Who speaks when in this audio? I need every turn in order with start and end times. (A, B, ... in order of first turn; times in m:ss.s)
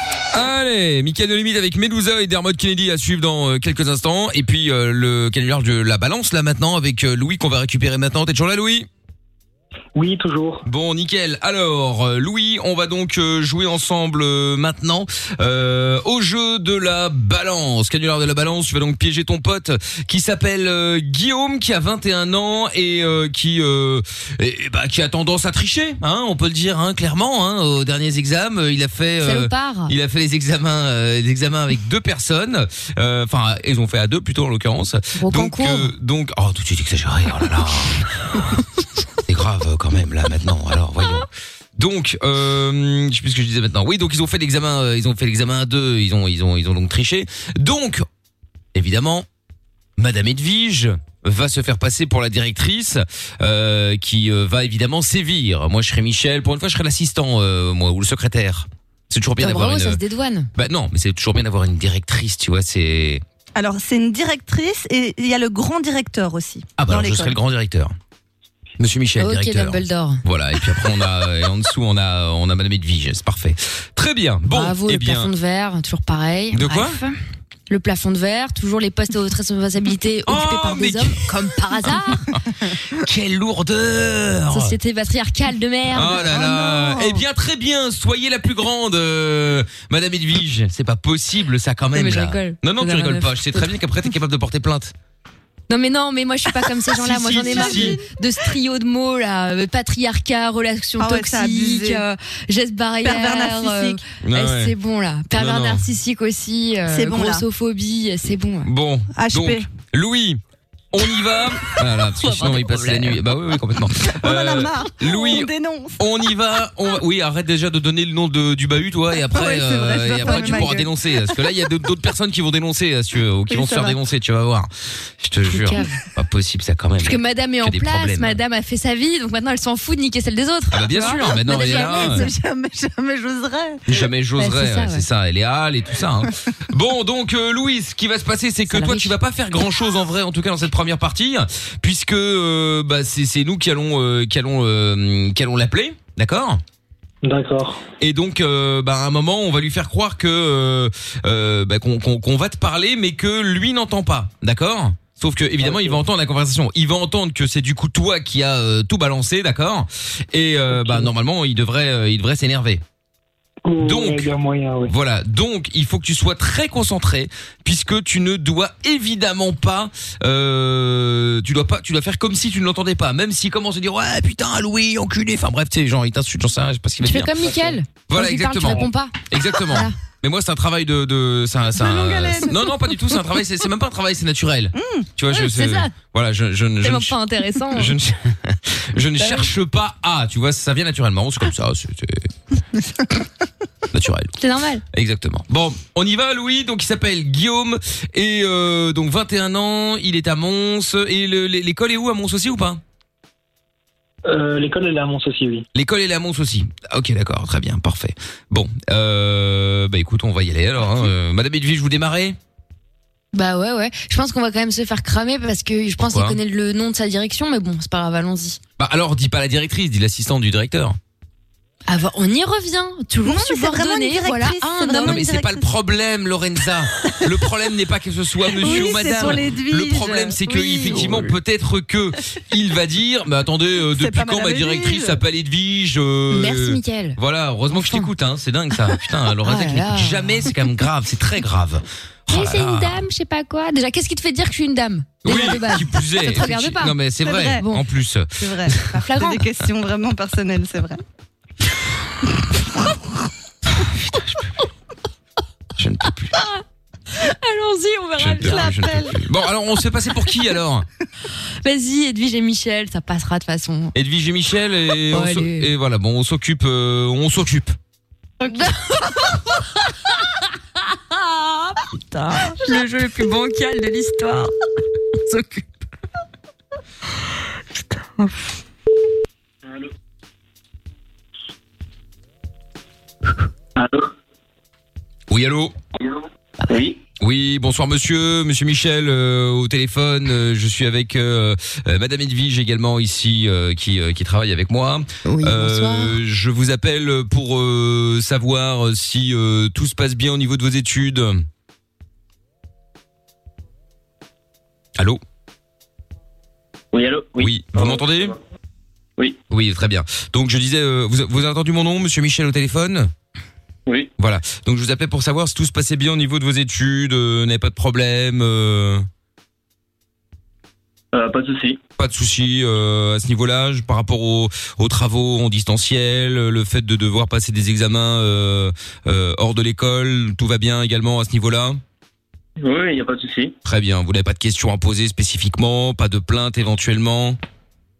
0:00.3-0:08.9 A
0:09.9-0:10.6 B
0:10.6-0:38.0 A
0:29.2-0:29.9 C
0:35.2-0:35.9 C
0:39.2-0:48.0 A
0:48.7-0:49.2 A
0:50.0-1:00.0 A
0:59.4-1:00.5 C
1:00.6-1:03.2 A
1:03.5-1:07.4 D
1:06.8-1:07.9 A
1:08.8-1:15.3 A
1:09.2-1:10.2 C
1:14.5-1:17.2 C
1:16.5-1:17.0 A
1:17.7-1:22.3 C
1:20.3-1:21.2 A
1:23.0-1:24.7 A
1:24.5-1:26.2 C
1:25.9-1:34.9 A
1:26.1-1:27.2 D
1:31.9-1:33.7 C
1:35.7-1:48.7 C
1:36.9-1:38.0 A
1:37.3-1:38.0 D
1:41.0-1:42.0 D
1:43.0-1:44.0 D
1:44.2-1:44.7 A
1:45.3-1:45.8 A
1:46.9-1:47.4 D
1:48.6-1:50.4 A
1:49.1-1:49.7 D
1:50.9-2:08.4 A
1:52.4-1:53.2 D
1:54.0-1:56.0 D
1:59.3-2:00.9 D
2:00.2-2:00.8 C
2:03.5-2:04.0 D
2:05.4-2:06.0 C
2:07.0-2:12.3 C
2:10.7-2:12.3 A
2:10.9-2:13.8 D
2:13.9-2:26.6 A
2:14.4-2:15.1 C
2:18.7-2:19.1 C
2:27.2-2:27.8 B
2:28.0-2:42.8 A
2:35.6-2:36.0 B
2:40.7-2:41.1 B
2:43.6-2:44.9 B
2:43.8-2:44.3 A
2:44.9-3:07.1 A
2:57.0-3:00.0 C
3:01.7-3:02.7 D
3:04.7-3:05.1 D
3:05.3-3:05.9 C
3:06.8-3:08.0 C
3:07.7-3:12.3 A
3:09.2-3:09.5 C
3:13.9-3:14.3 A
3:14.4-3:14.8 C
3:14.9-3:22.8 A
3:24.2-3:25.6 B
3:25.7-3:32.4 A
3:33.3-3:38.6 C
3:36.0-3:36.4 A
3:38.8-3:41.0 A
3:41.9-3:45.3 C
3:43.2-3:45.6 D
3:45.0-4:03.0 A
3:48.6-3:51.3 D
3:48.6-3:49.4 C
3:53.9-3:55.2 D
3:56.3-3:57.2 C
3:57.7-3:58.1 C
3:59.4-4:00.5 C
4:02.3-4:07.0 C
4:05.2-4:08.3 A
4:07.2-4:07.6 D
4:07.5-4:07.8 C
4:08.4-4:11.0 D
4:08.9-4:09.4 C
4:13.8-4:14.5 A
4:15.8-4:16.4 A
4:17.1-4:18.8 C
4:18.2-4:20.8 A
4:18.3-4:19.2 D
4:21.6-4:23.9 C
4:23.9-4:27.8 A
4:25.1-4:25.7 C
4:28.4-4:28.8 D
4:28.5-4:29.0 C
4:31.1-4:34.5 C
4:35.2-4:35.6 C
4:37.7-4:38.3 C
4:43.8-4:44.1 E
4:45.3-4:45.7 A
4:46.7-4:47.0 E
4:47.2-5:01.4 A
4:55.2-4:56.2 C
5:06.9-5:08.2 E
5:07.4-5:08.3 A
5:09.5-5:13.1 A
5:14.2-5:19.1 A
5:21.1-5:21.8 E
5:22.0-5:31.8 A
5:32.6-5:33.6 E
5:33.6-5:37.4 A